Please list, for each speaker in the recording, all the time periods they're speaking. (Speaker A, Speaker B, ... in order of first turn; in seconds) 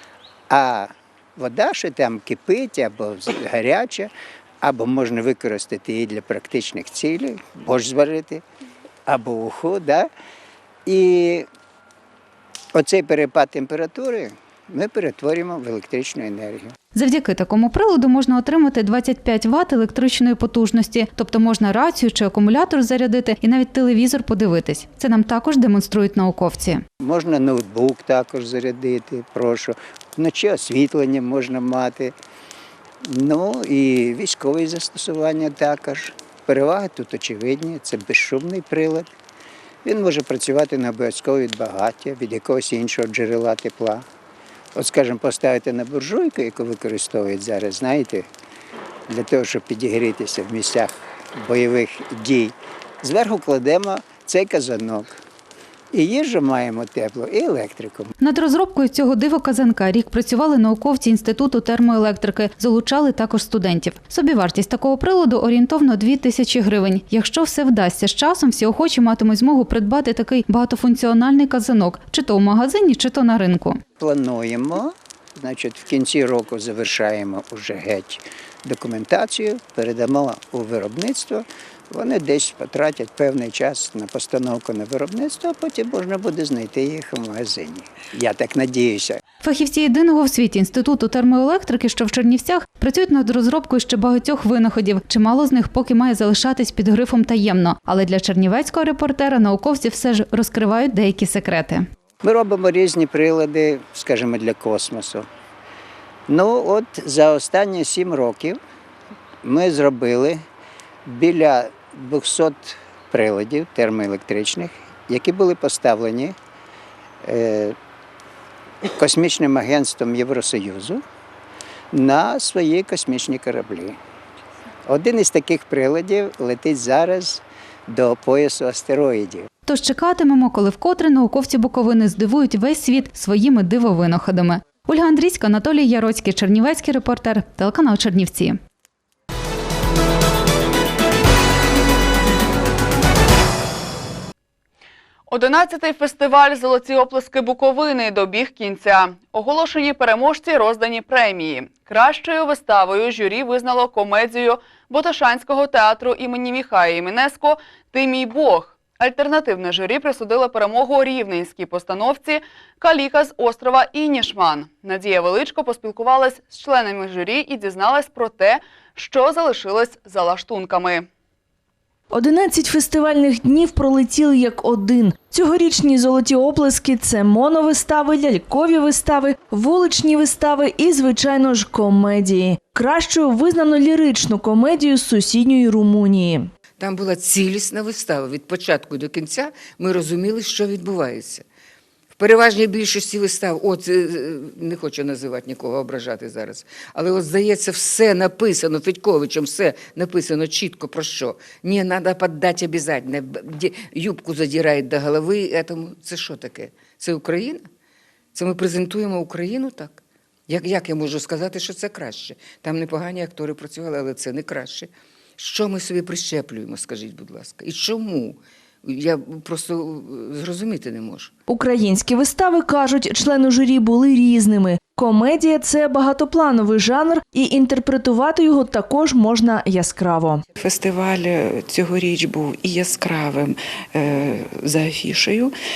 Speaker A: 0.5-4.1, 4.6-8.4, 9.1-10.1, 10.9-11.5, 12.7-16.7, 27.0-32.1, 33.0-39.1, 39.8-44.0, 44.8-48.3, 49.1-55.1, 55.9-58.1, 74.0-89.2, 102.2-105.2, 106.3-108.6, 109.4-110.4, 111.0-116.3, 117.2-117.8, 119.0-121.0, 121.9-124.0, 124.9-129.5
Speaker B: 16.9-26.8, 58.2-73.8, 89.4-101.8, 129.7-138.6
Speaker C: 145.3-171.1
Speaker D: 172.1-186.5, 221.5-230.4
Speaker E: 186.8-191.4, 192.1-207.7, 208.3-221.3
Speaker F: 230.6-235.6